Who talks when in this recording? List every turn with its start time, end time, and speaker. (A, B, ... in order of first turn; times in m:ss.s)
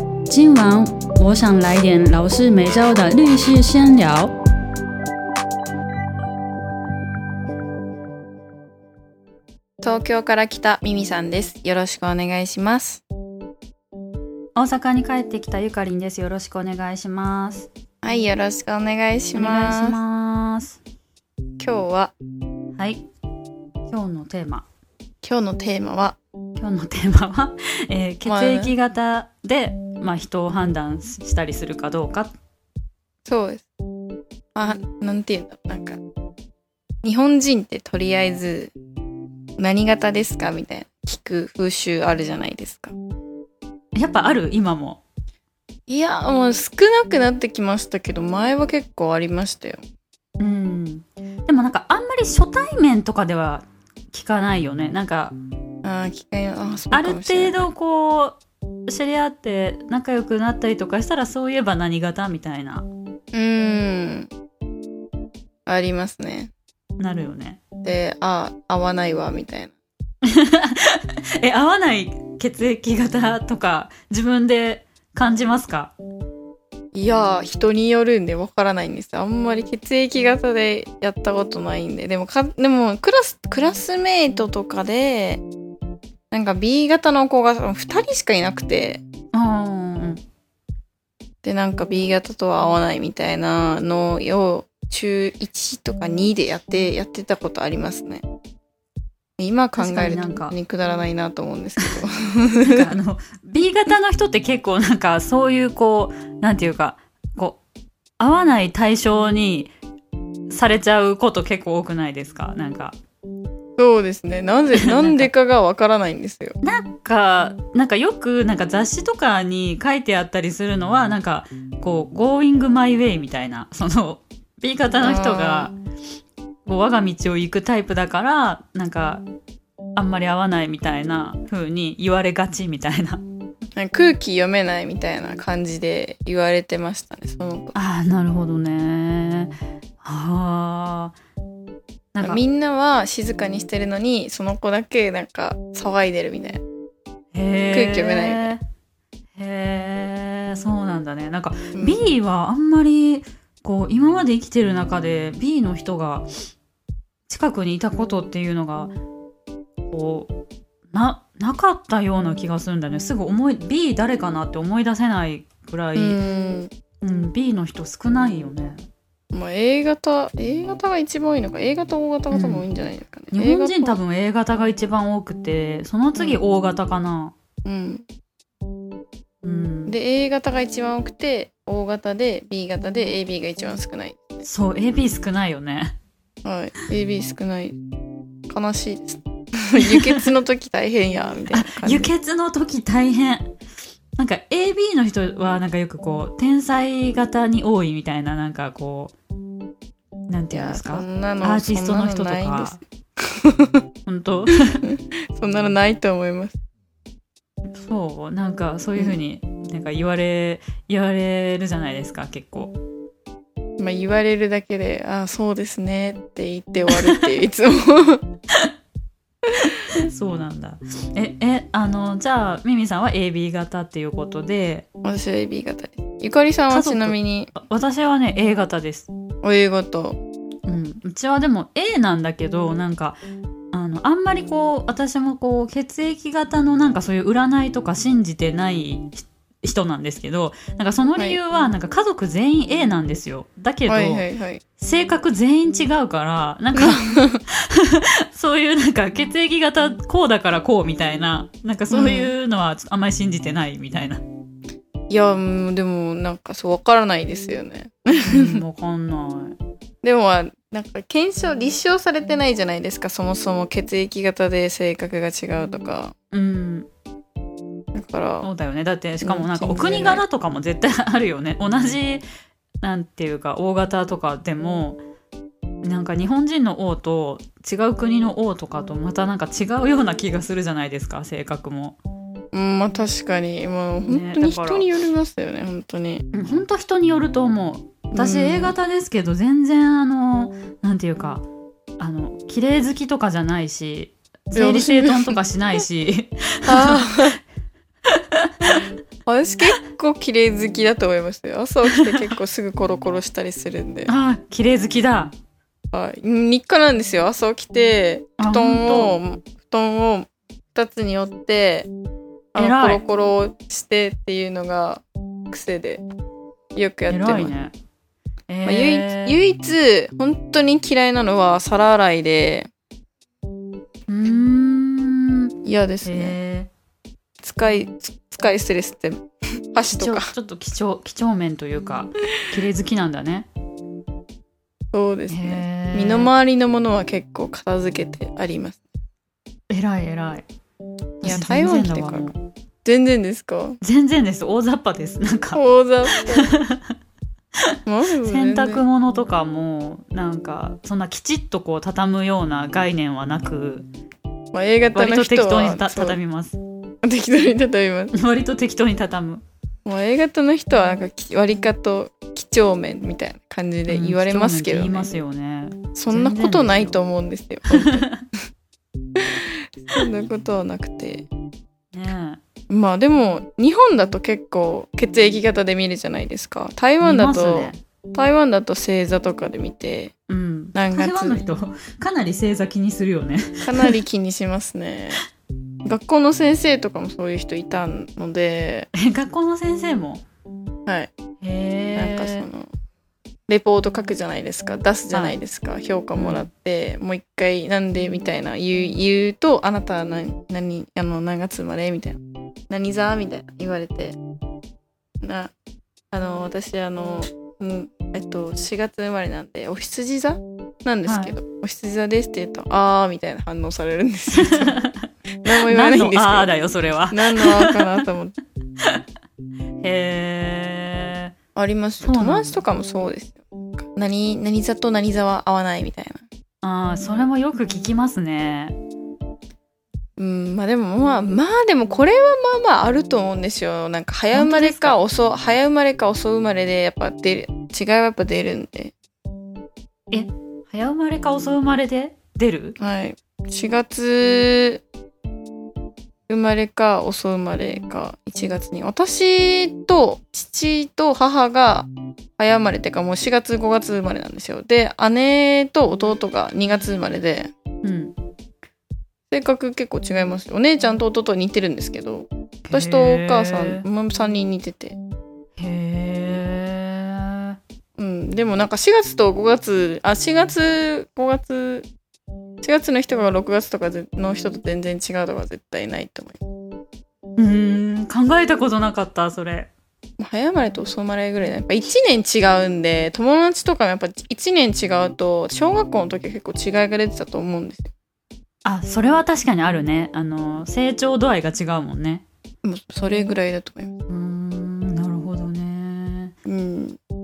0:00.3-0:04.4 A
0:09.8-0:13.0 B
0:14.6-0:17.7 A
0:18.0-0:20.0 B
0:19.4-0:20.8 A
0:21.6-0:22.1 B
0:22.8-0:23.1 A
0:23.9-0:24.7 A
0:25.2-0:26.2 B
0:26.6-0:32.3 A
0:28.2-0:28.7 B
0:33.3-0:33.7 B
0:34.6-0:36.0 B
0:37.0-0:38.7 B
0:39.6-0:42.9 B
0:44.0-0:45.0 A
0:45.9-0:49.8 B
0:50.4-0:55.4 A
0:55.8-0:57.7 B
0:56.9-1:02.8 A
1:03.3-1:04.3 B
1:05.7-1:06.5 B
1:07.0-1:07.6 A
1:07.8-1:09.8 B
1:10.2-1:15.9 A
1:16.9-1:25.4 B
1:26.3-1:29.0 B
1:29.3-1:30.2 A
1:31.4-1:38.2 B
1:39.4-1:42.9 B
1:39.8-1:40.5 A
1:42.6-1:47.6 A
1:48.2-1:49.7 A
1:50.5-1:53.0 A
1:53.8-1:56.6 B
1:54.8-1:55.3 A
1:56.6-2:05.8 A
2:05.0-2:05.7 B
2:06.7-2:09.2 A
2:10.0-2:13.2 A
2:13.8-2:17.8 B
2:17.7-2:21.2 A
2:22.1-2:22.4 A
2:22.2-2:26.6 B
2:27.3-2:28.6 A
2:27.7-2:28.5 B
2:29.4-2:36.3 A
2:31.8-2:32.1 B
2:37.3-2:38.9 A
2:39.9-2:40.3 A
2:40.9-2:46.2 A
2:46.0-2:46.7 B
2:47.0-2:48.8 A
2:49.3-2:54.0 B
2:52.3-2:52.7 A
2:53.3-2:57.3 A
2:57.6-2:58.0 B
2:59.4-2:59.9 A
2:59.9-3:04.2 B
3:04.4-3:06.0 A
3:06.4-3:07.8 B
3:08.5-3:12.1 B
3:09.8-3:10.2 A
3:11.5-3:13.5 A
3:14.2-3:19.1 A
3:20.3-3:22.8 A
3:20.5-3:22.8 B
3:23.4-3:23.8 B
3:24.1-3:24.8 A
3:24.8-3:26.6 B
3:27.8-3:32.7 A
3:33.8-3:38.2 B
3:40.0-3:44.8 A
3:45.0-3:47.5 B
3:46.7-3:49.1 A
3:49.4-3:50.2 B
3:50.7-3:53.2 A
3:53.7-4:04.2 A
4:03.9-4:04.6 B
4:04.8-4:14.2 A
4:06.8-4:07.4 B
4:11.9-4:12.3 B
4:15.1-4:18.6 B
4:18.2-4:19.6 A
4:20.0-4:26.1 B
4:26.3-4:26.9 A
4:27.9-4:28.5 B
4:28.4-4:32.2 A
4:29.2-4:30.2 B
4:32.8-4:35.0 A
4:35.8-4:42.0 A
4:42.5-4:46.3 B
4:44.1-4:44.9 A
4:46.3-4:51.4 A
4:48.1-4:48.8 B
4:52.0-4:57.0 A
4:54.5-4:55.4 B
4:56.7-4:57.4 B
4:58.2-4:58.8 A
4:59.3-5:04.1 B
5:04.1-5:05.3 A
5:05.9-5:11.9 B
5:08.4-5:09.2 A
5:12.5-5:16.0 B
5:12.6-5:13.0 A
5:16.8-5:17.5 B
5:17.1-5:17.7 A
5:18.5-5:19.4 A
5:18.6-5:22.7 B
5:24.1-5:25.5 A
5:25.6-5:26.4 B
5:26.0-5:26.7 A
5:27.4-5:30.3 B
5:29.8-5:33.5 A
5:34.9-5:38.8 B
5:35.3-5:36.3 A
5:39.7-5:40.5 A
5:41.2-5:42.4 A
5:41.2-5:42.3 B
5:42.8-5:43.8 B
5:43.8-5:45.6 A
5:45.5-5:46.5 B
5:46.2-5:46.8 A
5:47.9-5:48.8 B
5:48.3-5:53.9 A
5:54.5-5:56.2 B
5:55.0-5:56.6 A
5:57.0-5:58.1 B
5:58.1-5:59.4 A
5:59.9-6:05.1 B
6:03.9-6:07.0 A
6:06.0-6:08.1 B
6:07.8-6:08.2 A
6:09.8-6:11.3 B
6:11.9-6:12.4 A
6:12.7-6:20.1 B
6:17.0-6:17.8 A
6:20.3-6:23.9 A
6:20.7-6:21.4 B
6:23.6-6:25.2 B
6:25.9-6:28.9 B
6:29.0-6:30.2 A
6:31.4-6:32.5 A
6:32.0-6:32.7 B
6:33.5-6:44.2 B
6:35.1-6:35.4 A
6:36.2-6:36.5 A
6:45.2-6:45.5 B
6:46.1-6:54.8 B
6:51.1-6:51.4 A
6:54.3-6:55.1 A
6:55.4-6:56.5 B
6:55.6-6:57.8 A
6:57.1-6:58.4 B
6:59.8-7:01.3 A
7:01.6-7:06.2 B
7:02.0-7:02.6 A
7:06.6-7:08.8 A
7:10.2-7:18.9 B
7:14.3-7:15.0 A
7:20.1-7:22.8 A
7:22.8-7:24.8 B
7:26.3-7:37.5 B
7:37.8-7:38.1 A
7:39.3-7:45.0 B
7:42.7-7:43.9 A
7:45.6-7:47.6 A
7:48.0-7:51.9 B
7:52.6-7:56.4 B
7:57.4-7:59.7 A
8:00.2-8:07.9 B
8:08.6-8:12.2 A
8:12.6-8:13.9 B
8:14.1-8:16.4 A
8:16.4-8:17.0 B